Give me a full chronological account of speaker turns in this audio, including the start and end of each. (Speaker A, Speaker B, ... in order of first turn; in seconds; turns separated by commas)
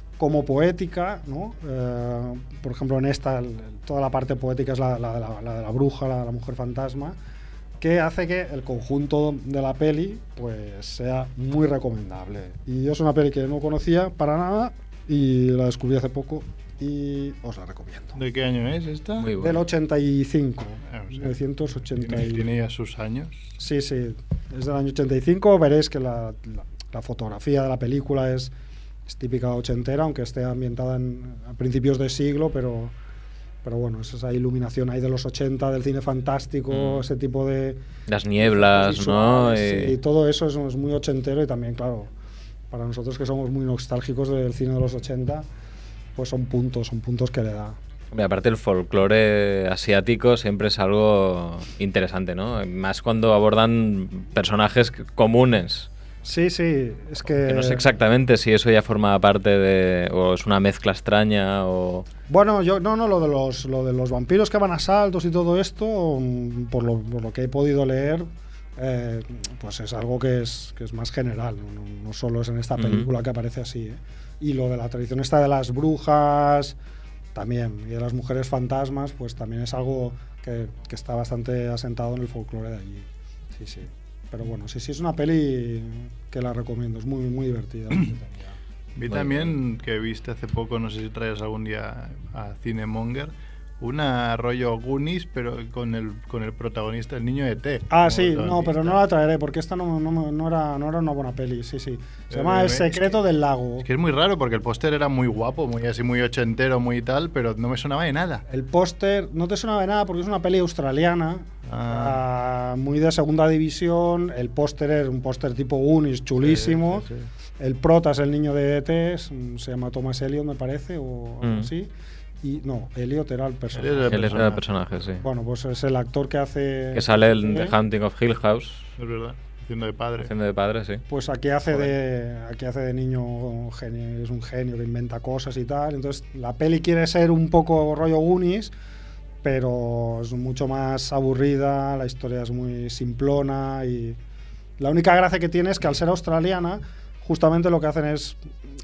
Speaker A: 0.2-7.2, Speaker A: 7.8-18.2, Speaker B: 18.1-19.3, Speaker C: 19.2-19.6, Speaker A: 19.4-22.5, Speaker B: 20.9-21.3, Speaker B: 22.0-23.4, Speaker A: 23.6-28.5, Speaker A: 29.1-32.9, Speaker A: 33.6-37.8, Speaker C: 36.7-37.0, Speaker C: 38.1-40.0, Speaker A: 38.4-42.1, Speaker A: 42.7-45.4, Speaker A: 46.1-47.8, Speaker C: 48.1-55.9, Speaker A: 56.2-57.9, Speaker C: 57.4-62.0, Speaker A: 62.3-76.8, Speaker C: 72.8-73.1, Speaker A: 77.3-88.5, Speaker B: 89.0-99.0, Speaker C: 89.1-89.5, Speaker A: 97.9-103.8, Speaker B: 102.3-103.2, Speaker B: 103.8-108.4, Speaker A: 108.5-117.0, Speaker B: 111.7-112.2, Speaker B: 116.4-117.3, Speaker A: 117.6-121.9, Speaker C: 121.4-121.7, Speaker A: 122.4-124.5, Speaker B: 123.7-125.0, Speaker C: 124.1-125.2, Speaker A: 125.2-127.8, Speaker C: 126.9-128.9, Speaker B: 129.0-130.3, Speaker C: 130.2-131.0, Speaker A: 131.1-138.7, Speaker A: 139.4-144.2, Speaker A: 144.8-148.4